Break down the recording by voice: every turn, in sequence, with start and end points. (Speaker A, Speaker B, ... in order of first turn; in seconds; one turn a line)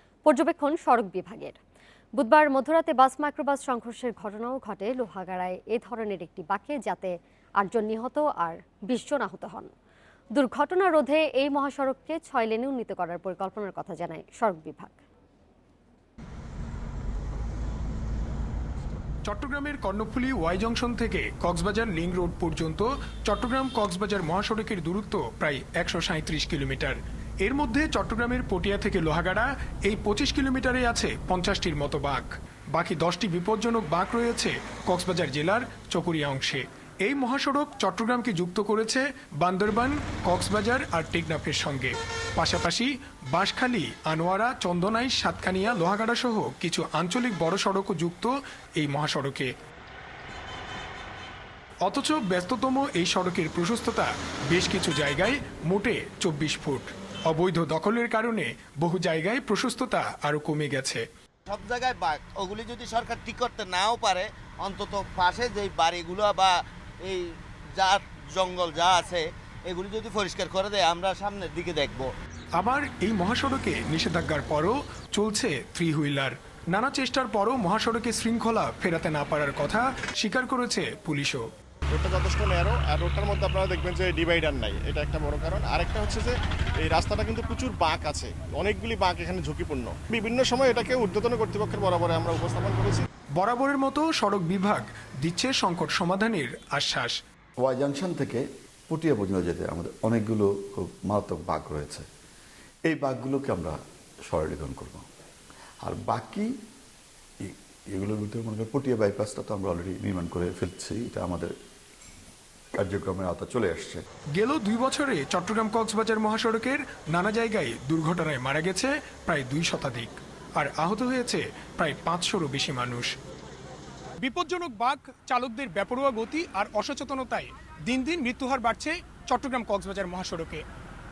Speaker A: 0.2-1.6
Speaker A: 2.2-9.7
Speaker A: 10.3-15.0
Speaker B: 19.2-49.5
Speaker B: 51.8-61.0
Speaker C: 61.5-72.1
Speaker B: 72.6-81.4
Speaker D: 81.9-93.0
Speaker B: 93.4-97.1
Speaker E: 97.6-102.0
Speaker E: 102.9-103.8
Speaker E: 104.3-105.1
Speaker E: 105.8-106.5
Speaker E: 107.4-111.5
Speaker E: 112.8-114.0
Speaker B: 114.3-123.1
Speaker B: 124.2-130.6